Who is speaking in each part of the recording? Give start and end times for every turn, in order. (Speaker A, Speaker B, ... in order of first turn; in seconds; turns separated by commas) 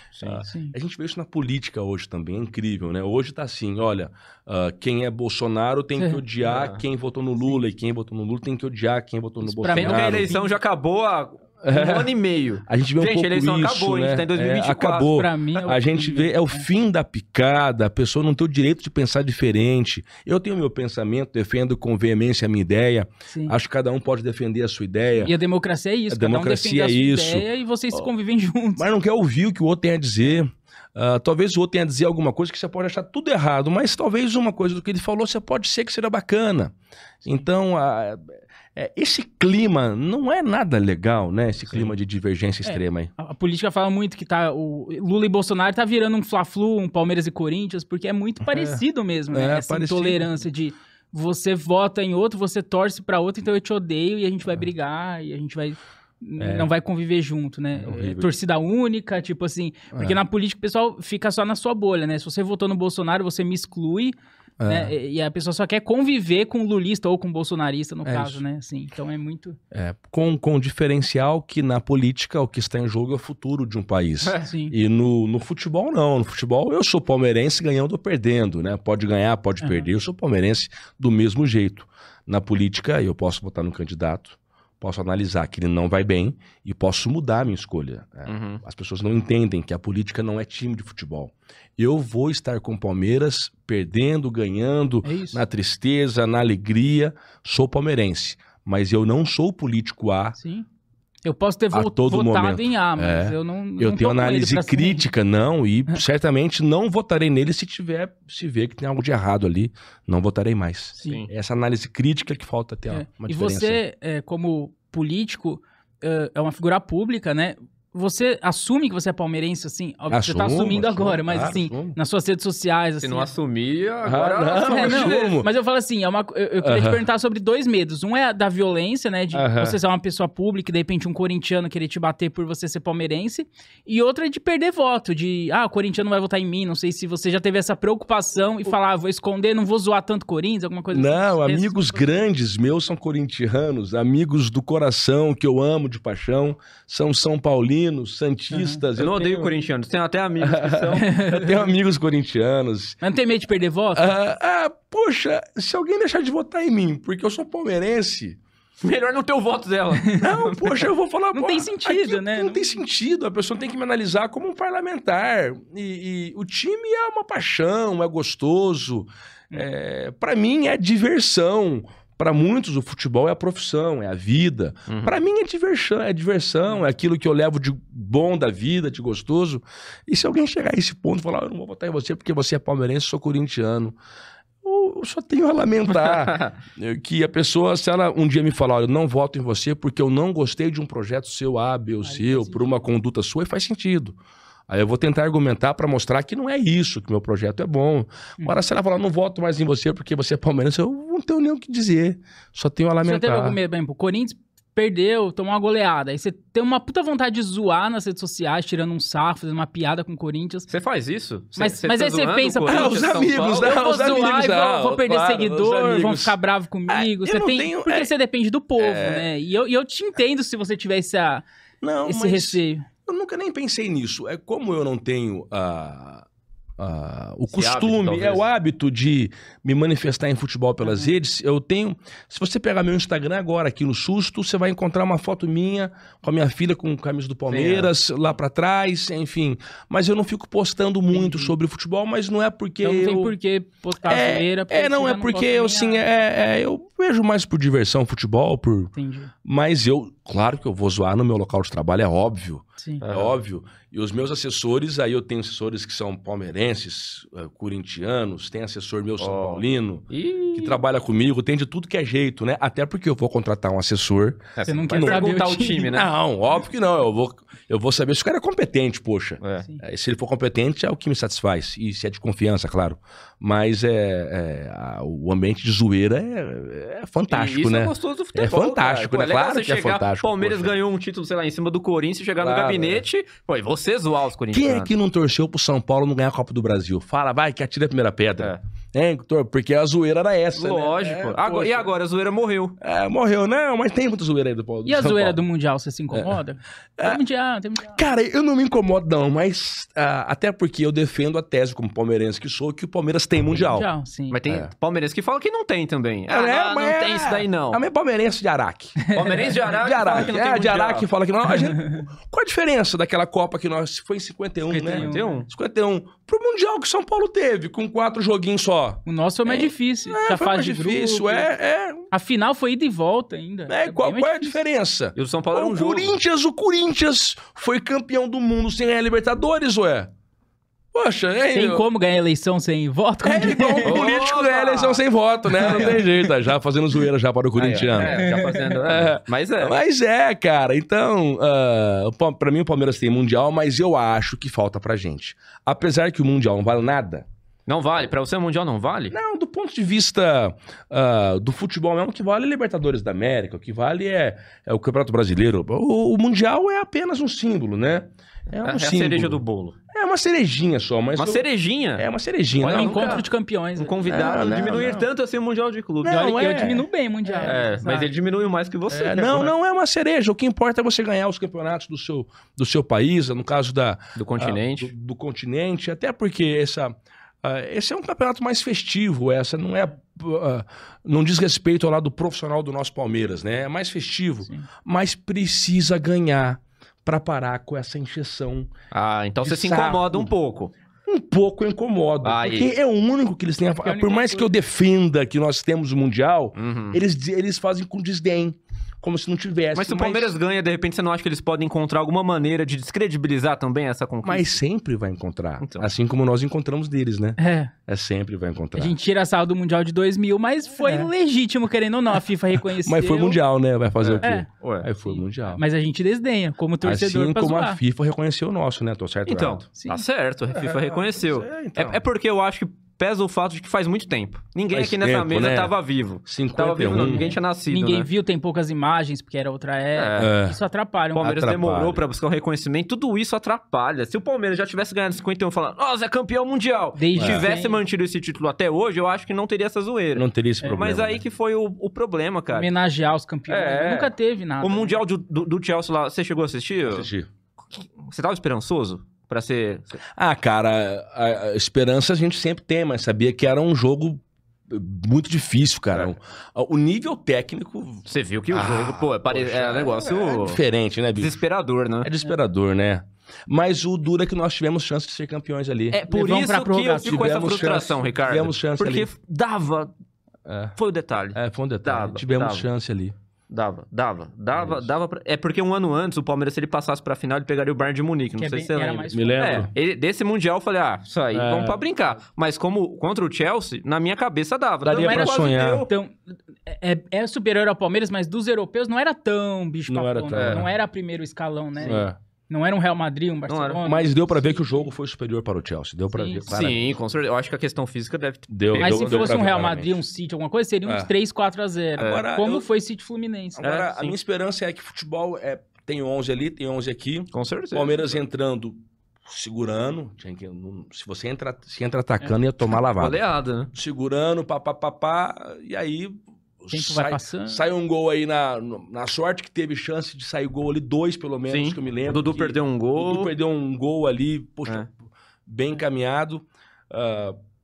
Speaker A: 0.1-0.4, Speaker B: 0.2-10.3, Speaker C: 0.5-0.8, Speaker C: 6.0-6.2, Speaker A: 6.5-6.8, Speaker C: 9.4-10.5, Speaker A: 9.7-15.2, Speaker B: 11.6-12.1, Speaker B: 12.7-25.3, Speaker C: 15.1-16.6, Speaker C: 23.3-23.6, Speaker C: 25.2-28.9, Speaker B: 26.1-28.1, Speaker B: 28.8-36.7, Speaker B: 37.2-43.1, Speaker C: 42.7-69.6, Speaker B: 48.5-50.3, Speaker B: 56.4-56.7, Speaker B: 57.8-58.3, Speaker B: 59.9-60.2, Speaker B: 64.6-64.9, Speaker B: 68.0-68.4, Speaker B: 69.7-100.4, Speaker C: 74.4-74.8, Speaker C: 79.6-79.9, Speaker A: 88.3-88.6, Speaker C: 95.0-95.4, Speaker C: 100.4-100.7, Speaker C: 101.2-105.1, Speaker B: 101.7-113.8, Speaker C: 111.0-111.2, Speaker A: 111.0-111.3, Speaker C: 112.9-123.3, Speaker B: 120.1-122.0, Speaker A: 123.0-125.4, Speaker B: 124.0-125.5, Speaker C: 124.6-142.0, Speaker B: 126.6-127.0, Speaker B: 129.3-129.8, Speaker B: 140.9-149.5, Speaker C: 148.5-148.8, Speaker A: 149.0-151.2, Speaker B: 150.4-153.0, Speaker C: 151.0-151.5, Speaker C: 153.0-154.1, Speaker B: 153.9-158.4, Speaker A: 158.8-160.9, Speaker B: 160.2-184.0, Speaker C: 161.3-162.8, Speaker A: 174.9-175.2, Speaker B: 184.6-194.2, Speaker A: 185.9-186.6, Speaker C: 192.0-192.8, Speaker B: 194.7-203.6, Speaker C: 198.4-198.6, Speaker C: 203.0-210.7, Speaker A: 210.7-213.9, Speaker C: 211.6-221.5, Speaker B: 212.7-216.4, Speaker B: 216.9-218.1, Speaker B: 218.8-219.3, Speaker B: 221.8-226.2, Speaker C: 222.0-222.9, Speaker B: 226.8-243.4, Speaker A: 227.5-228.5, Speaker C: 230.8-231.1, Speaker A: 237.5-237.9, Speaker C: 241.1-241.5, Speaker C: 242.8-246.1, Speaker B: 244.1-248.9, Speaker C: 248.9-249.3, Speaker B: 249.4-265.2, Speaker A: 253.0-253.4, Speaker A: 259.2-260.8, Speaker A: 264.6-266.1, Speaker C: 264.6-266.0, Speaker B: 265.9-280.8, Speaker A: 269.4-269.7, Speaker A: 277.3-284.9, Speaker B: 282.4-283.0, Speaker B: 284.5-291.9, Speaker A: 290.6-292.8, Speaker B: 292.8-295.4, Speaker C: 294.9-298.0, Speaker B: 296.1-296.4, Speaker B: 297.9-303.9, Speaker C: 303.5-304.4, Speaker A: 304.3-307.8, Speaker B: 306.3-322.1, Speaker C: 309.0-309.6, Speaker A: 309.1-311.1, Speaker C: 311.5-312.1, Speaker C: 314.7-315.4, Speaker A: 314.9-315.5, Speaker C: 319.1-321.5, Speaker C: 322.1-324.6, Speaker B: 323.7-330.1, Speaker A: 325.1-326.1, Speaker B: 330.9-331.9, Speaker C: 331.5-334.0, Speaker B: 333.2-338.2, Speaker A: 333.8-335.0, Speaker A: 335.6-336.0, Speaker C: 335.6-336.1, Speaker A: 337.6-339.8, Speaker C: 338.0-338.8, Speaker B: 338.8-347.3, Speaker A: 347.7-349.1, Speaker B: 349.1-361.4, Speaker A: 358.6-359.8, Speaker A: 361.2-366.3, Speaker B: 362.0-363.2, Speaker C: 362.6-364.5, Speaker B: 364.0-365.1, Speaker B: 366.0-367.7, Speaker C: 366.1-368.1, Speaker A: 367.4-369.5, Speaker B: 368.9-388.7, Speaker A: 374.2-374.9, Speaker A: 388.9-390.7, Speaker B: 389.4-390.3, Speaker B: 391.1-400.4, Speaker A: 392.2-392.7, Speaker C: 393.8-394.5, Speaker A: 396.6-397.0, Speaker A: 399.7-404.6, Speaker B: 404.2-409.0, Speaker A: 405.6-405.9, Speaker C: 407.4-407.7, Speaker C: 408.8-413.4, Speaker B: 410.8-411.1, Speaker B: 412.6-415.6, Speaker A: 414.0-414.9, Speaker C: 414.2-414.5, Speaker C: 415.5-417.8, Speaker B: 416.8-419.6, Speaker A: 419.3-428.1, Speaker C: 419.8-420.0, Speaker B: 420.5-422.0, Speaker B: 424.7-425.7, Speaker B: 426.3-427.3, Speaker C: 426.9-431.3, Speaker A: 429.9-430.3, Speaker B: 430.2-430.6, Speaker A: 431.2-442.7, Speaker B: 431.2-432.0, Speaker C: 437.0-437.8, Speaker B: 437.2-437.5, Speaker B: 440.1-441.2, Speaker C: 442.5-445.0, Speaker A: 443.5-447.1, Speaker B: 446.9-447.3, Speaker A: 447.8-450.0, Speaker B: 450.2-461.4, Speaker A: 458.1-460.6, Speaker A: 461.1-462.1, Speaker B: 462.0-466.0, Speaker C: 465.9-467.4, Speaker A: 466.0-469.9, Speaker B: 467.0-469.1, Speaker B: 470.5-470.8, Speaker A: 470.8-472.7, Speaker B: 471.3-473.1, Speaker A: 473.5-485.9, Speaker B: 474.6-474.9, Speaker C: 478.4-479.6, Speaker B: 479.1-479.7, Speaker B: 481.3-481.9, Speaker B: 484.8-485.9, Speaker C: 484.9-494.9, Speaker B: 489.9-490.7, Speaker A: 490.3-490.7, Speaker B: 491.8-492.2, Speaker A: 493.5-493.8, Speaker B: 493.8-496.8, Speaker C: 496.1-496.5, Speaker A: 496.5-499.4, Speaker B: 498.5-500.0, Speaker C: 498.8-503.7, Speaker B: 500.9-501.1, Speaker B: 502.0-502.7, Speaker A: 502.0-502.3, Speaker B: 503.6-524.9, Speaker A: 503.6-504.2, Speaker A: 507.3-508.1, Speaker A: 512.9-513.7, Speaker C: 516.7-517.6, Speaker A: 521.5-523.3, Speaker B: 525.5-527.4